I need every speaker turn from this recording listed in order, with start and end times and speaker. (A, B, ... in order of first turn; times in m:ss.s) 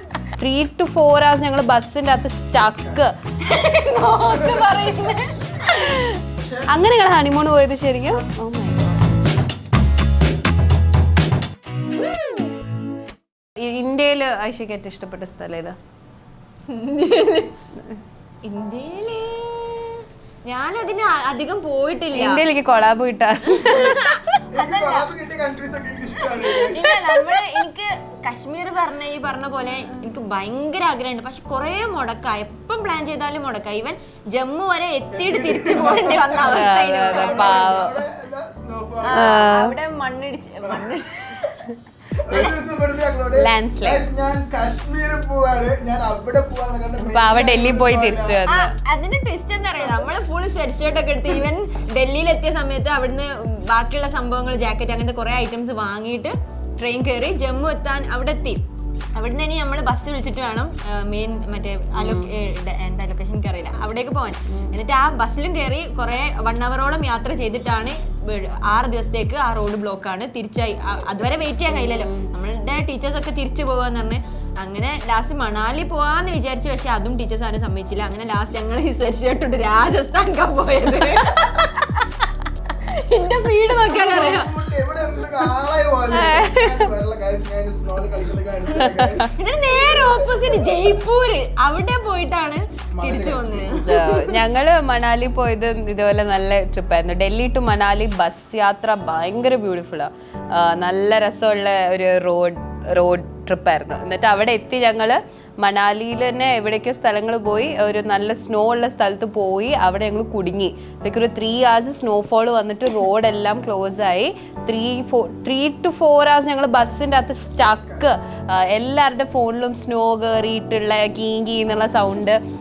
0:00.4-0:03.1 A
0:03.4-0:05.3 B
0:04.2-0:04.9 C
0:05.7-0:09.0 A
0:06.4-0:06.7 C
0:13.6-0:15.8 A
0:16.7-0:17.6 B
0:18.4-0:22.4 B
0:22.1-0:24.1 A
0:23.5-0:25.1 B
0:24.5-0:27.2 C
0:26.4-0:37.8 B
0:35.1-0:39.3 C
0:36.4-0:38.0 A
0:39.0-0:41.6 B
0:39.2-0:39.7 A
0:40.6-0:41.0 C
0:42.2-0:48.4 C
0:43.3-0:44.1 A
0:47.0-0:48.7 A
0:48.5-1:24.6 B
0:49.8-0:50.1 C
1:02.0-1:02.3 A
1:11.7-1:12.3 A
1:23.7-1:30.9 C
1:26.1-1:26.9 A
1:28.8-1:29.3 A
1:29.3-1:34.3 B
1:33.0-1:33.8 C
1:33.8-2:02.4 A
1:57.6-1:58.1 C